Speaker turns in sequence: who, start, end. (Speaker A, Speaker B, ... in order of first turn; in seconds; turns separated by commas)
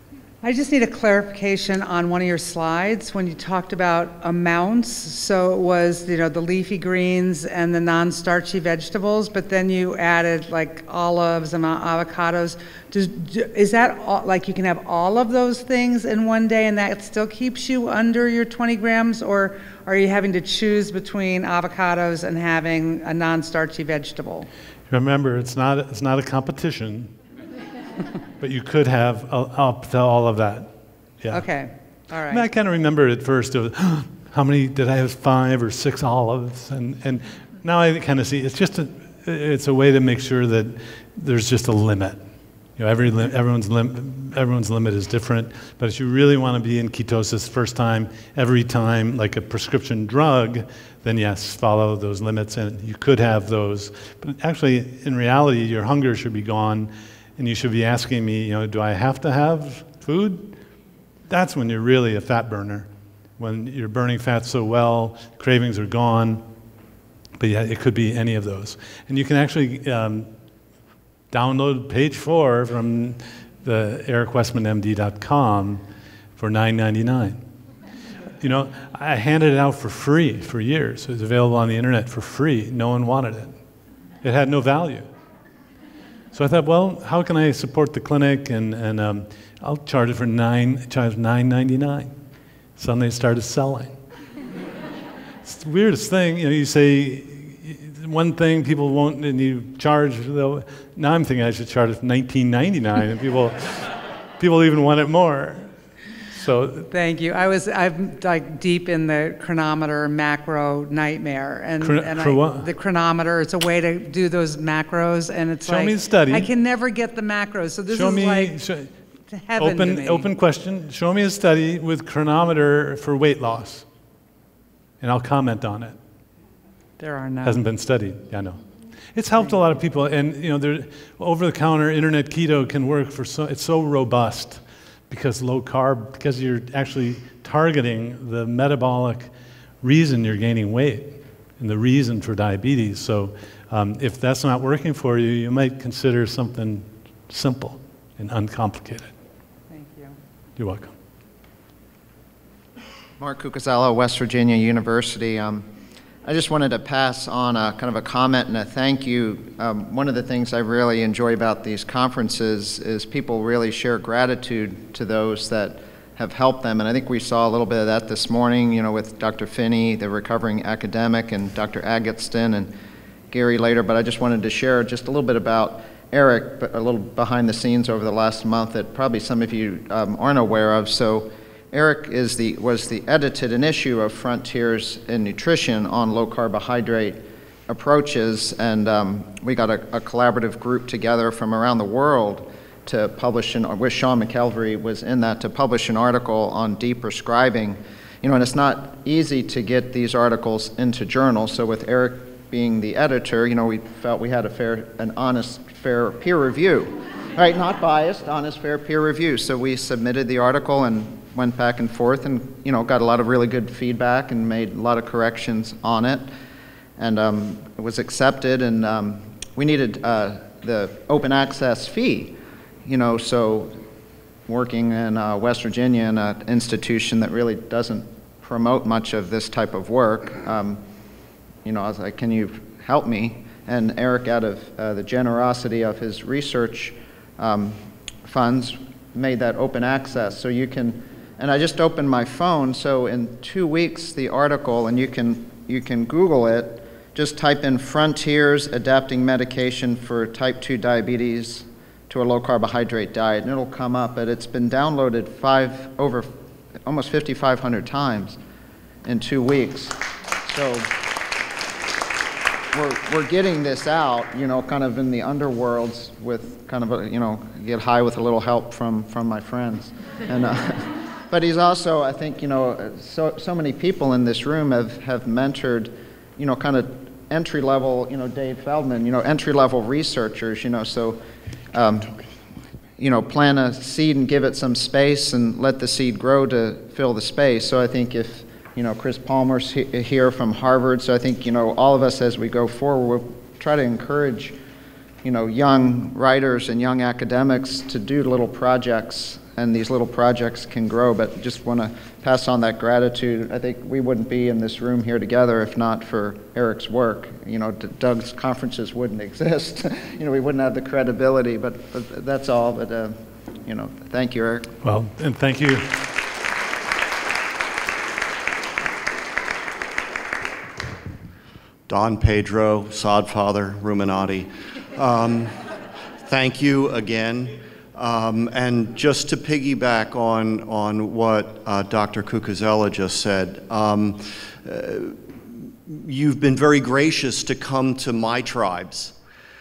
Speaker A: 0.4-24.5, Speaker B: 24.9-27.1, Speaker B: 28.4-31.5, Speaker A: 31.3-32.5, Speaker B: 32.1-42.2, Speaker B: 42.8-60.6, Speaker B: 61.3-66.5, Speaker B: 67.4-70.3, Speaker B: 71.3-75.8, Speaker B: 76.4-77.4, Speaker B: 78.4-83.6, Speaker B: 84.2-85.1, Speaker B: 86.3-92.1, Speaker B: 92.8-94.0, Speaker B: 95.5-105.7, Speaker B: 106.3-106.9, Speaker A: 106.9-118.6, Speaker B: 111.8-112.7, Speaker B: 115.6-116.5, Speaker B: 117.9-118.9, Speaker A: 119.3-120.3, Speaker B: 119.6-123.8, Speaker B: 125.0-126.0, Speaker A: 127.0-127.6, Speaker B: 127.4-128.6, Speaker B: 129.2-139.3, Speaker B: 139.8-149.1, Speaker A: 149.7-150.2, Speaker B: 150.6-150.9, Speaker C: 153.2-155.7, Speaker C: 156.2-172.7, Speaker C: 173.3-216.3, Speaker C: 217.0-223.8, Speaker C: 224.5-230.8, Speaker C: 231.7-256.3, Speaker C: 256.9-258.4, Speaker C: 259.0-261.0, Speaker C: 262.7-281.2, Speaker C: 281.7-282.2, Speaker C: 283.0-294.6, Speaker C: 295.2-314.7, Speaker B: 314.8-316.1, Speaker D: 321.9-325.6, Speaker D: 326.2-339.1